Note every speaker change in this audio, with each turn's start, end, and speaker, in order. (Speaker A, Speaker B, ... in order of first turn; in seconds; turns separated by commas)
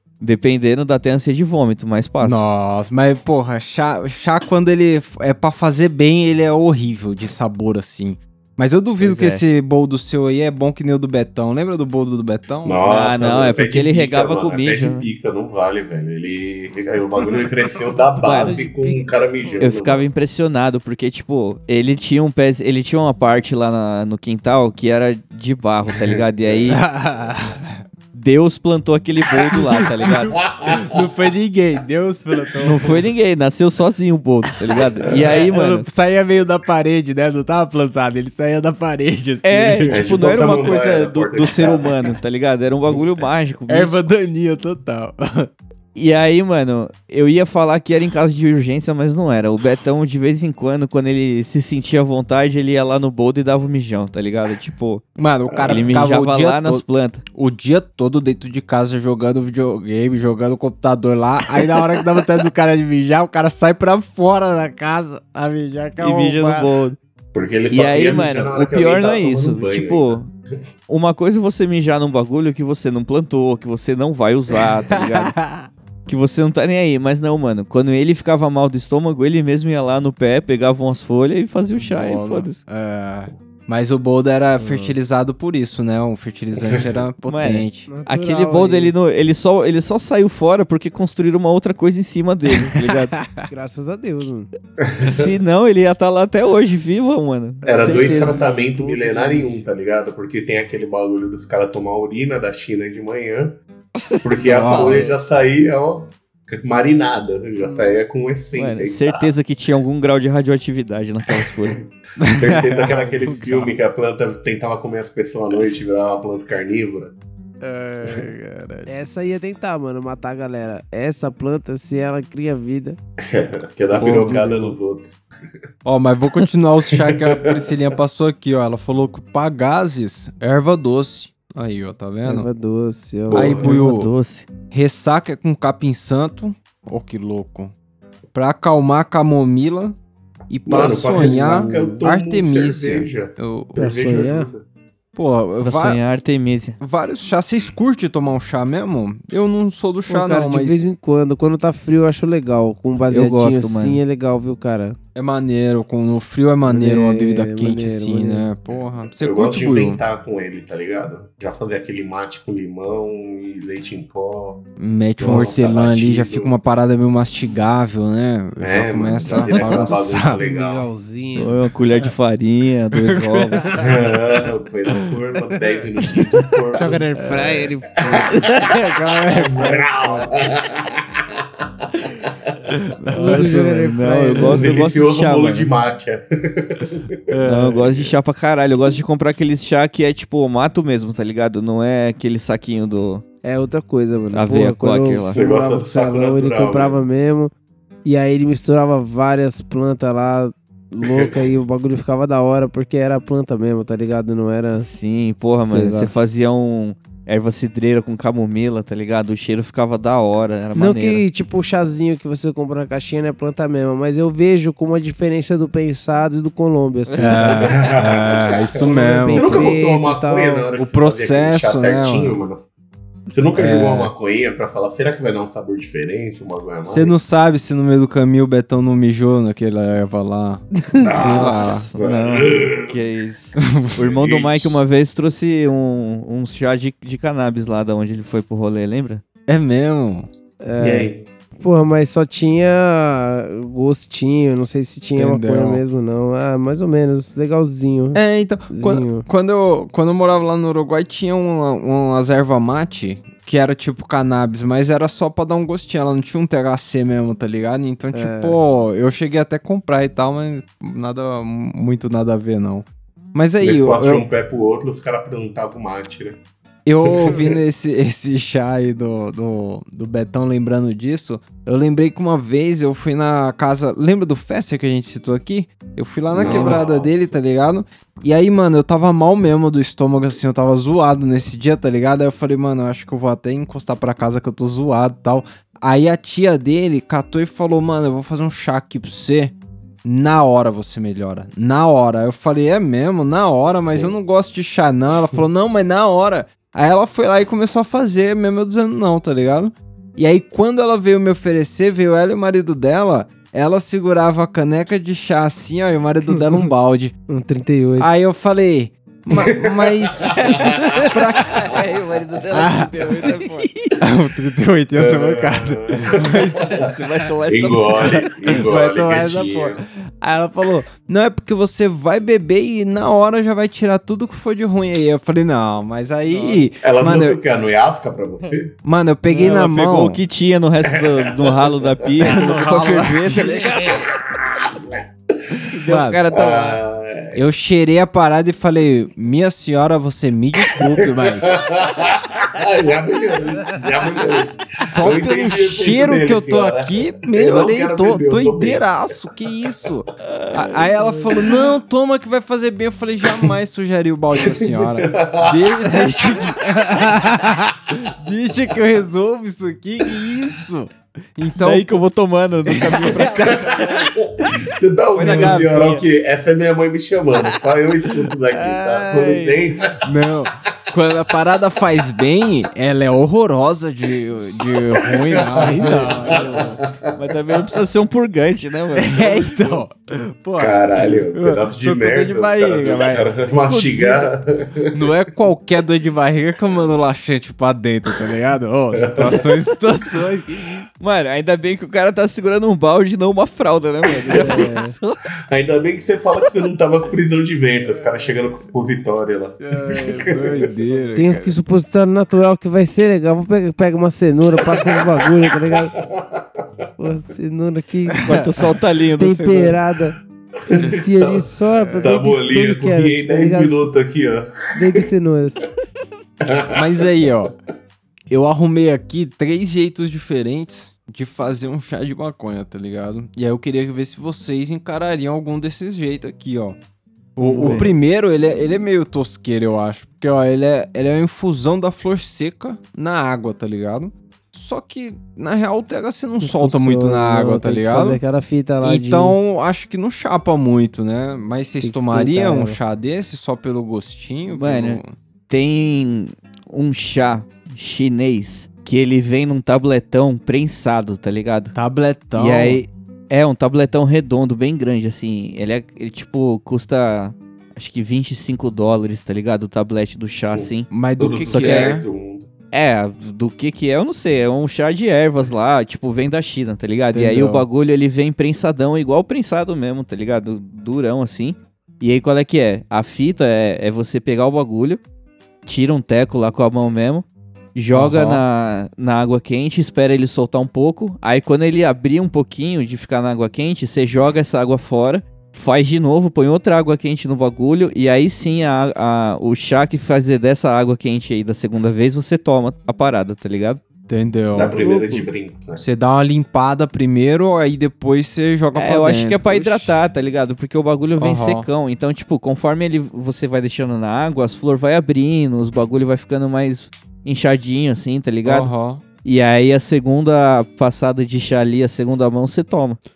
Speaker A: 0.2-2.4, Speaker B: 2.2-12.8, Speaker A: 9.0-9.4, Speaker C: 12.6-20.1, Speaker A: 12.8-15.1, Speaker A: 18.2-18.5, Speaker D: 18.4-19.6, Speaker A: 19.6-26.8, Speaker C: 25.9-27.4, Speaker B: 26.7-27.8, Speaker A: 28.1-30.4, Speaker B: 29.5-33.0, Speaker C: 30.4-30.8, Speaker A: 32.6-35.9, Speaker B: 35.1-40.3, Speaker A: 39.4-44.1, Speaker C: 39.9-41.9, Speaker B: 43.7-45.5, Speaker A: 45.9-55.0, Speaker B: 55.2-66.7, Speaker C: 55.5-56.0, Speaker A: 55.6-57.2, Speaker A: 66.0-67.0, Speaker C: 67.3-70.2, Speaker A: 67.7-70.3, Speaker A: 70.9-75.3, Speaker B: 74.9-75.7, Speaker A: 76.1-82.6, Speaker B: 81.8-87.9, Speaker D: 84.6-85.0, Speaker C: 86.6-87.0, Speaker A: 87.3-93.2, Speaker D: 87.9-88.9, Speaker B: 92.7-93.5, Speaker D: 93.5-94.5, Speaker C: 94.8-95.3, Speaker A: 95.0-98.3, Speaker D: 97.6-99.6, Speaker C: 97.7-103.6, Speaker B: 104.1-105.1, Speaker C: 104.2-109.3, Speaker A: 104.5-105.1, Speaker D: 107.6-108.0, Speaker A: 108.5-111.8, Speaker B: 112.2-113.7, Speaker C: 112.3-117.1, Speaker B: 117.6-118.9, Speaker D: 118.9-123.0, Speaker C: 123.2-125.1, Speaker B: 123.9-124.7, Speaker D: 124.0-124.6, Speaker B: 125.8-132.5, Speaker C: 126.9-127.6, Speaker D: 132.2-133.7, Speaker C: 133.3-133.7, Speaker B: 133.3-134.1, Speaker A: 133.6-134.5, Speaker B: 134.7-137.7, Speaker B: 138.3-140.0, Speaker B: 140.5-143.8, Speaker C: 140.7-144.6, Speaker D: 141.2-142.0, Speaker D: 143.8-144.5, Speaker B: 145.1-146.0, Speaker A: 145.6-146.8, Speaker B: 146.8-150.9, Speaker D: 150.1-155.0, Speaker A: 153.1-154.0, Speaker B: 155.1-160.0, Speaker D: 156.7-158.5, Speaker C: 158.7-164.6, Speaker B: 164.8-170.4, Speaker C: 165.2-166.5, Speaker A: 165.2-165.7, Speaker C: 168.6-170.9, Speaker D: 169.6-171.7, Speaker A: 171.3-173.7, Speaker B: 173.0-173.8, Speaker C: 173.8-177.4, Speaker D: 175.5-175.8, Speaker D: 176.8-178.7, Speaker B: 177.1-177.7, Speaker C: 178.1-178.4, Speaker B: 178.3-180.3, Speaker C: 179.3-182.5, Speaker B: 182.7-183.6, Speaker D: 183.1-184.7, Speaker A: 183.2-185.7, Speaker C: 184.4-187.2, Speaker B: 187.3-187.9, Speaker A: 187.5-193.2, Speaker C: 187.8-188.1, Speaker D: 193.4-197.5, Speaker A: 194.3-195.4, Speaker C: 195.3-197.0, Speaker D: 198.0-204.9, Speaker C: 201.1-201.4, Speaker A: 204.8-211.2, Speaker D: 205.7-206.1, Speaker D: 210.7-217.8, Speaker A: 217.1-217.8, Speaker B: 217.2-219.7, Speaker C: 217.6-222.7, Speaker D: 218.8-220.7, Speaker B: 220.8-222.4, Speaker C: 223.3-227.1, Speaker B: 223.5-224.1, Speaker B: 226.8-231.9, Speaker C: 231.0-232.9, Speaker A: 231.2-239.2, Speaker B: 233.6-233.9, Speaker C: 234.0-234.8, Speaker B: 239.5-240.3, Speaker D: 240.6-249.2, Speaker C: 240.8-241.2, Speaker B: 245.2-245.8, Speaker B: 248.1-264.3, Speaker D: 258.1-258.6, Speaker C: 263.6-266.4, Speaker B: 266.9-307.1, Speaker C: 267.0-267.6, Speaker C: 276.3-277.4, Speaker A: 276.4-276.9, Speaker D: 307.3-308.1, Speaker B: 308.0-311.8, Speaker C: 309.4-311.1, Speaker A: 311.5-313.7, Speaker B: 312.5-313.3, Speaker B: 313.9-316.8, Speaker C: 314.9-316.9, Speaker A: 316.8-318.2, Speaker C: 317.5-319.8, Speaker B: 318.5-327.4, Speaker A: 326.3-326.6, Speaker C: 326.8-328.7, Speaker B: 328.8-330.2, Speaker A: 329.3-334.0, Speaker C: 331.0-331.8, Speaker B: 332.2-334.0, Speaker C: 333.7-335.0, Speaker A: 335.6-336.8, Speaker B: 335.9-336.2, Speaker C: 336.3-337.4, Speaker B: 337.3-341.6, Speaker C: 341.4-348.9, Speaker B: 344.8-361.9, Speaker A: 350.2-350.6, Speaker C: 354.4-356.3, Speaker A: 361.6-364.1, Speaker B: 362.7-363.9, Speaker C: 363.4-369.9, Speaker A: 365.1-366.0, Speaker B: 365.2-365.7, Speaker A: 368.5-369.6, Speaker B: 370.0-376.8, Speaker C: 375.0-377.1, Speaker D: 375.6-376.6, Speaker A: 377.1-379.7, Speaker B: 379.0-384.3, Speaker C: 380.6-385.1, Speaker B: 384.9-390.9, Speaker C: 388.9-389.5, Speaker A: 391.0-395.2, Speaker C: 394.3-394.6, Speaker D: 394.3-394.9, Speaker C: 395.5-400.8, Speaker B: 397.9-398.3, Speaker B: 399.6-401.6, Speaker D: 401.1-405.9, Speaker C: 404.6-406.8, Speaker D: 407.0-408.4, Speaker B: 408.1-408.5, Speaker A: 408.2-409.8, Speaker D: 409.2-410.1, Speaker C: 410.6-415.0, Speaker D: 410.9-413.9, Speaker B: 411.8-412.1, Speaker D: 414.7-415.7, Speaker C: 416.4-417.0, Speaker B: 416.7-417.5, Speaker B: 418.3-426.8, Speaker B: 427.4-438.2, Speaker A: 427.4-427.9, Speaker D: 436.4-439.4, Speaker B: 438.8-445.1, Speaker D: 441.8-442.8, Speaker A: 444.5-451.7, Speaker B: 451.7-452.8, Speaker A: 452.3-460.9, Speaker C: 460.5-462.5, Speaker B: 460.9-462.0, Speaker A: 461.4-461.9, Speaker A: 462.7-475.0, Speaker B: 467.1-467.6, Speaker A: 475.6-493.8, Speaker B: 477.9-478.4, Speaker B: 494.1-494.8, Speaker C: 494.5-495.8, Speaker D: 494.7-495.2, Speaker B: 495.8-500.0, Speaker A: 498.7-508.7, Speaker B: 501.2-501.7, Speaker B: 508.4-509.0, Speaker A: 509.2-513.0